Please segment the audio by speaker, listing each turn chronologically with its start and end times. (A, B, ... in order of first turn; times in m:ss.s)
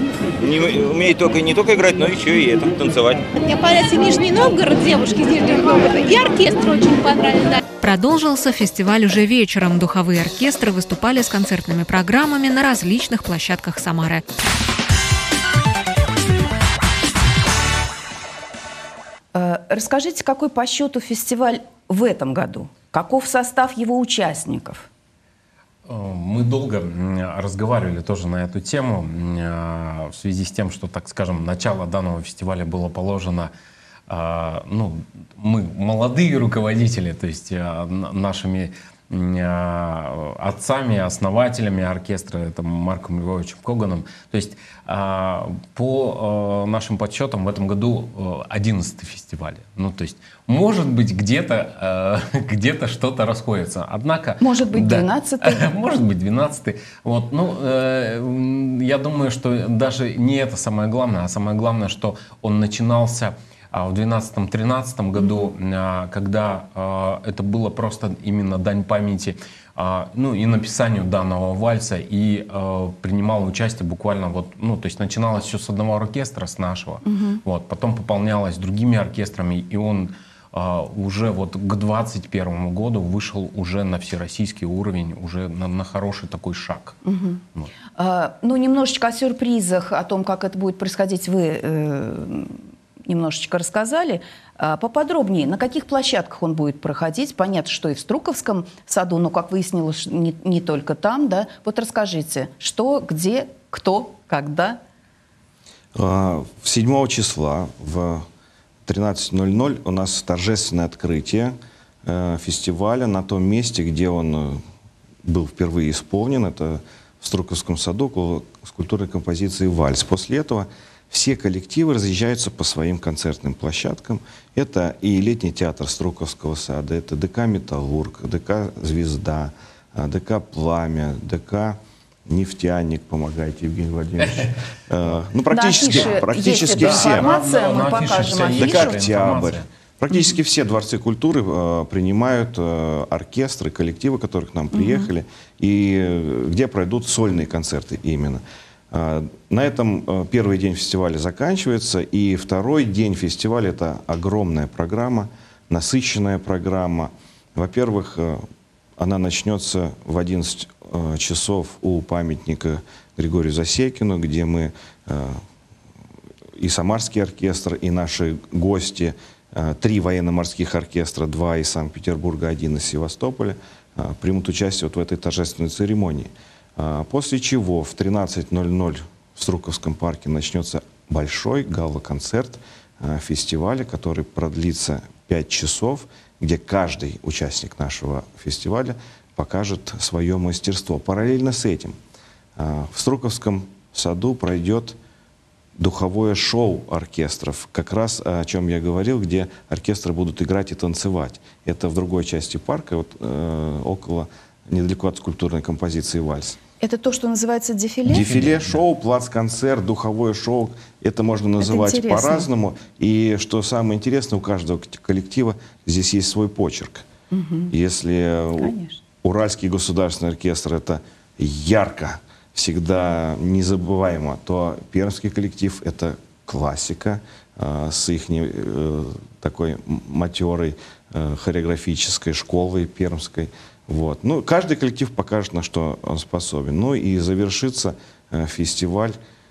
0:00.4-0:03.2 A
0:03.4-0:07.6 B
0:07.8-0:14.2 C
0:19.4-0:24.9 D
0:25.9-0:33.5 E
0:34.1-1:27.0 E
0:54.4-0:55.8 D
1:05.2-1:05.5 D
1:17.0-1:17.4 D
1:27.0-1:27.4 D
1:28.0-1:44.8 D
1:46.0-1:48.3 F
1:48.9-1:54.6 F
1:55.2-2:17.3 F
2:15.5-2:19.0 D
2:16.7-2:19.7 E
2:18.4-2:38.5 F
2:24.7-2:25.1 D
2:39.0-2:45.4 F
2:46.6-3:12.0 F
3:12.6-3:15.0 F
3:15.8-3:26.6 F
3:26.8-3:28.3 D
3:28.1-3:37.1 F
3:28.1-3:28.8 E
3:31.6-3:32.5 D
3:37.3-3:37.7 D
3:37.7-3:59.2 F
3:38.6-3:39.0 D